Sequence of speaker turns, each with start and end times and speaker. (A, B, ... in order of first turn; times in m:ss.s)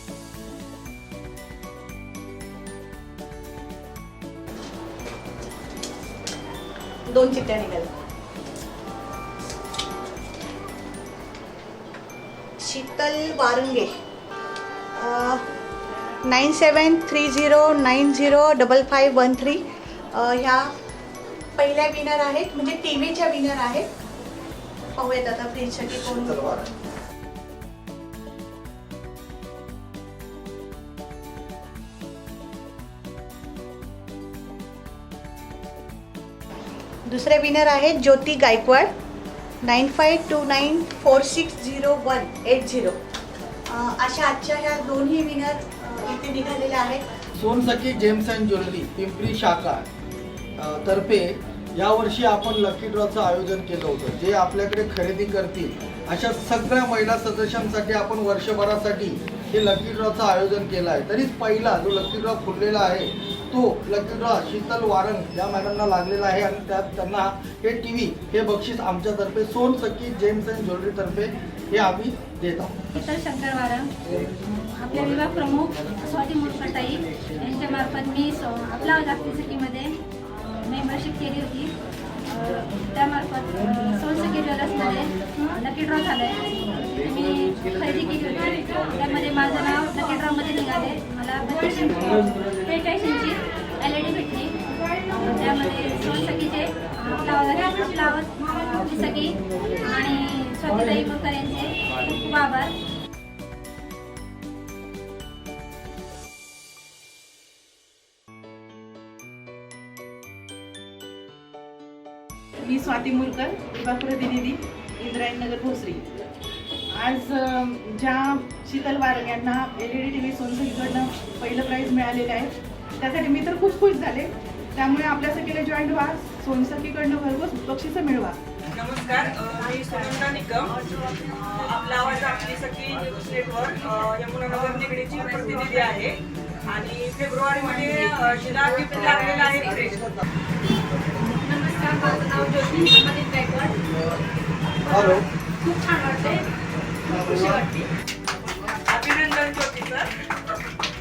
0:07.1-0:07.9 A
0:12.6-0:13.9 A
0:15.0-0:15.4 A
0:16.2-0:19.6 A
0:20.1-0:20.7 A
0:21.6-0:23.9 A
0:25.0-0:26.4 A
0:25.9-0:26.6 B
0:37.1-0:38.9 A
0:39.6-0:43.0 A
0:43.7-0:47.0 A
0:47.4-0:49.9 B
0:50.6-1:12.8 B
1:12.9-1:13.9 C
1:14.7-1:21.7 C
1:22.3-1:42.8 C
1:52.6-1:56.0 D
1:57.0-2:08.4 D
2:08.7-2:20.1 E
2:21.4-2:23.8 C
2:22.5-2:22.8 E
2:24.8-2:25.2 E
2:25.6-2:26.4 C
2:27.1-2:27.9 E
2:28.7-2:30.1 E